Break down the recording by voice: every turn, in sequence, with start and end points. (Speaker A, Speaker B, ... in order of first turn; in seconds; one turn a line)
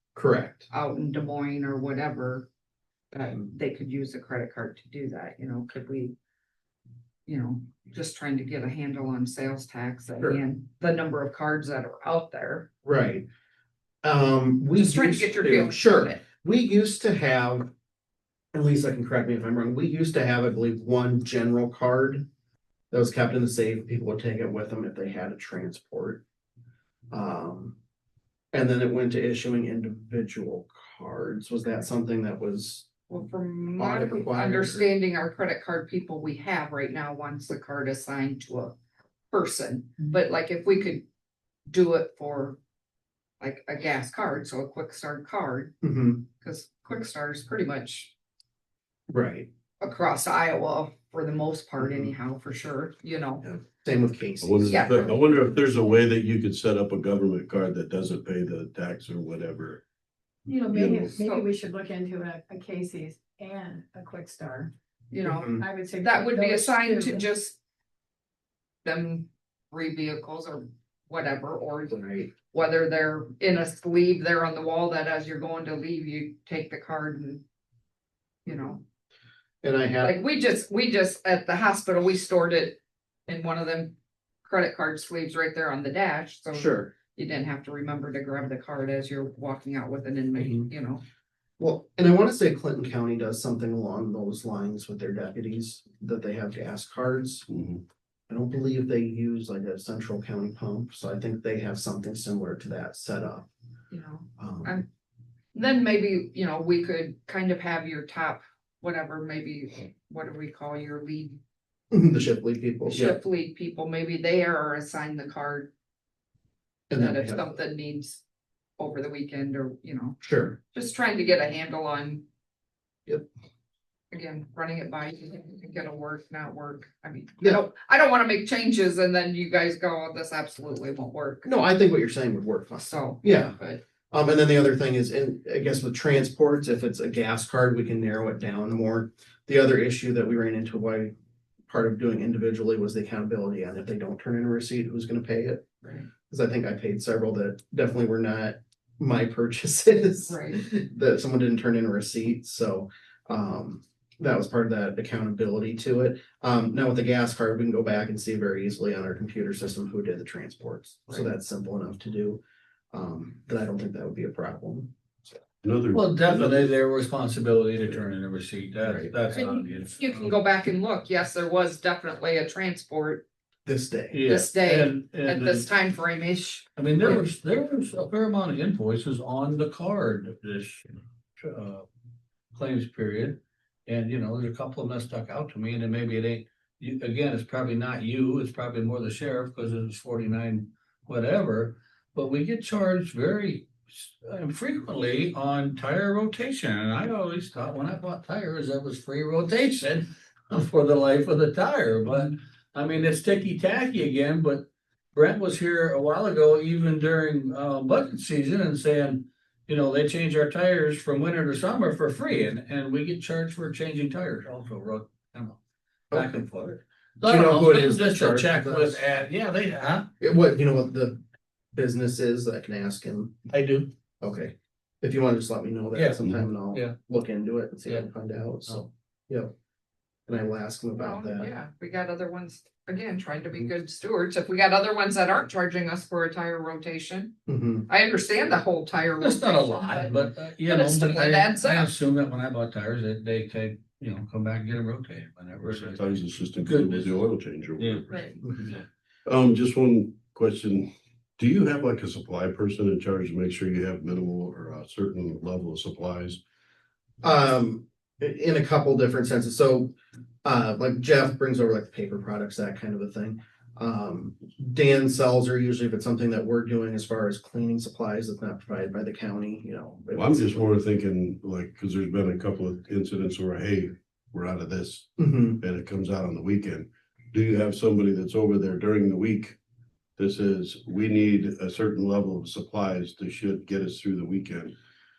Speaker A: 0.1-0.7
Speaker B: 0.7-2.5
Speaker B: 3.1-6.2
Speaker B: 7.3-12.7
Speaker A: 12.8-13.3
Speaker A: 14.0-17.7
Speaker B: 14.7-16.2
Speaker A: 18.5-22.3
Speaker A: 22.9-26.2
Speaker A: 27.1-27.8
Speaker A: 28.5-32.9
Speaker B: 33.1-38.8
Speaker A: 33.8-34.9
Speaker B: 39.3-41.0
Speaker B: 41.7-42.6
Speaker B: 43.4-45.7
Speaker A: 45.8-46.2
Speaker B: 46.4-48.1
Speaker A: 49.1-49.5
Speaker B: 49.8-53.5
Speaker A: 51.8-52.1
Speaker A: 53.4-54.9
Speaker C: 54.4-59.8
Speaker B: 54.7-55.2
Speaker D: 60.5-64.7
Speaker C: 60.6-61.2
Speaker B: 61.2-61.5
Speaker B: 65.1-67.6
Speaker A: 65.2-65.6
Speaker D: 65.6-67.3
Speaker B: 68.8-77.4
Speaker A: 71.9-72.3
Speaker A: 78.5-78.7
Speaker B: 78.5-78.8
Speaker A: 79.6-80.2
Speaker B: 80.0-91.0
Speaker A: 86.5-86.9
Speaker A: 90.4-90.7
Speaker A: 91.6-97.5
Speaker C: 97.5-97.8
Speaker A: 98.3-103.5
Speaker B: 103.9-104.9
Speaker A: 104.4-104.8
Speaker B: 105.5-111.4
Speaker A: 111.9-113.2
Speaker B: 112.9-115.7
Speaker A: 116.9-117.5
Speaker B: 117.0-118.2
Speaker B: 118.8-122.2
Speaker A: 120.2-120.6
Speaker B: 124.1-131.5
Speaker A: 131.4-133.6
Speaker B: 132.8-133.8
Speaker A: 134.1-141.1
Speaker A: 141.7-145.7
Speaker B: 145.8-146.1
Speaker A: 146.3-162.4
Speaker B: 150.3-150.6
Speaker A: 162.9-165.4
Speaker C: 165.6-166.7
Speaker E: 165.9-170.3
Speaker A: 168.8-169.1
Speaker B: 169.3-173.3
Speaker A: 173.7-174.2
Speaker E: 174.1-175.7
Speaker B: 174.3-176.7
Speaker E: 176.8-180.9
Speaker E: 181.4-181.9
Speaker E: 182.5-215.6
Speaker A: 216.1-216.4
Speaker E: 216.1-220.1
Speaker A: 217.2-219.1
Speaker A: 220.2-221.2
Speaker A: 221.7-223.3
Speaker E: 223.5-223.9
Speaker A: 224.2-229.5
Speaker E: 225.9-227.0
Speaker A: 230.3-231.5
Speaker B: 231.0-237.3
Speaker A: 237.5-237.9
Speaker B: 237.9-241.9
Speaker E: 239.2-247.2
Speaker C: 245.6-248.7
Speaker E: 247.8-248.0
Speaker B: 248.1-248.4
Speaker C: 249.3-256.4
Speaker A: 257.2-270.6
Speaker C: 270.1-279.6
Speaker A: 275.2-275.6
Speaker C: 280.2-284.8